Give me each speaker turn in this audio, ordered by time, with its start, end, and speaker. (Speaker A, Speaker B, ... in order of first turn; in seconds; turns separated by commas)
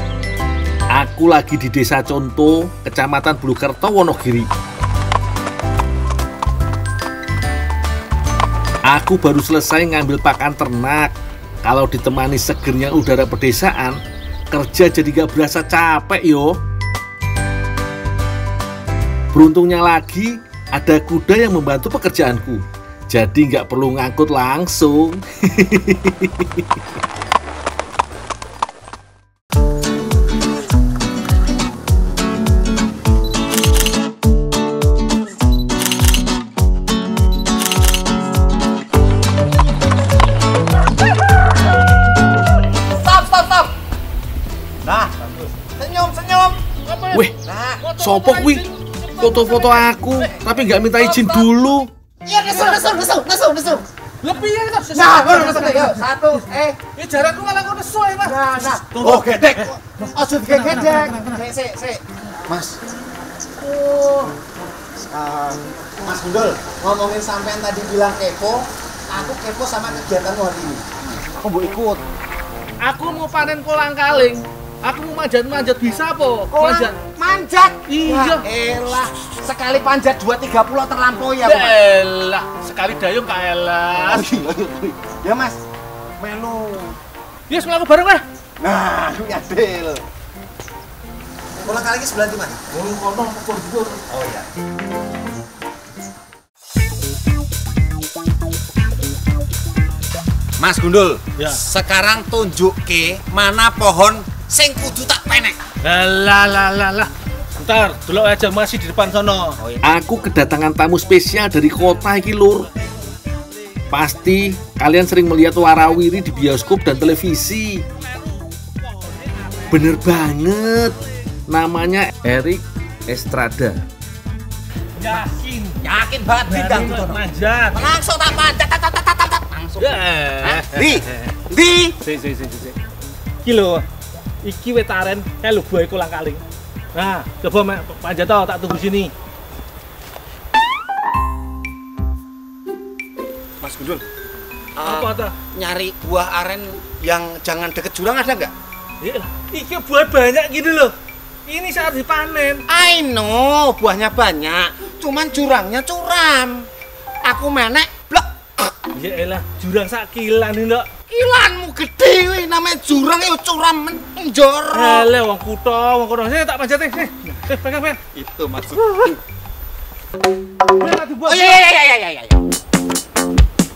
Speaker A: 0.9-4.5, Speaker A: 8.9-14.0, Speaker A: 14.5-16.6, Speaker A: 19.3-26.7, Speaker B: 43.0-43.7, Speaker B: 44.8-46.6, Speaker C: 46.9-50.2, Speaker B: 47.4-47.8, Speaker A: 48.0-48.7, Speaker A: 49.2-51.9, Speaker B: 51.0-51.5, Speaker B: 52.2-53.9, Speaker C: 54.2-59.7, Speaker B: 54.9-56.8, Speaker B: 58.2-62.8, Speaker C: 60.4-61.3, Speaker C: 63.6-64.3, Speaker B: 65.0-72.0, Speaker C: 72.8-77.0, Speaker B: 76.5-81.8, Speaker C: 77.9-78.5, Speaker C: 81.4-84.2, Speaker B: 84.1-85.6, Speaker B: 86.2-87.0, Speaker C: 87.5-88.2, Speaker B: 88.6-90.0, Speaker B: 91.6-92.7, Speaker C: 92.7-94.0, Speaker B: 94.0-94.5, Speaker B: 100.6-105.6, Speaker C: 105.8-109.6, Speaker B: 109.6-109.9, Speaker A: 109.8-112.7, Speaker A: 113.9-117.8, Speaker C: 118.6-119.6, Speaker A: 119.7-121.0, Speaker A: 121.5-123.8, Speaker C: 125.0-125.8, Speaker B: 125.8-131.9, Speaker C: 126.5-127.9, Speaker C: 129.8-131.1, Speaker C: 132.0-132.8, Speaker C: 133.4-133.8, Speaker C: 134.4-136.4, Speaker C: 136.9-139.1, Speaker B: 143.6-144.0, Speaker B: 144.8-148.5, Speaker C: 144.8-145.3, Speaker C: 149.0-150.9, Speaker C: 151.5-152.6, Speaker B: 152.7-156.7, Speaker B: 157.2-158.3, Speaker C: 158.9-160.9, Speaker B: 161.1-165.1, Speaker C: 164.7-168.0, Speaker B: 168.1-169.2, Speaker C: 170.8-171.6, Speaker B: 171.3-172.4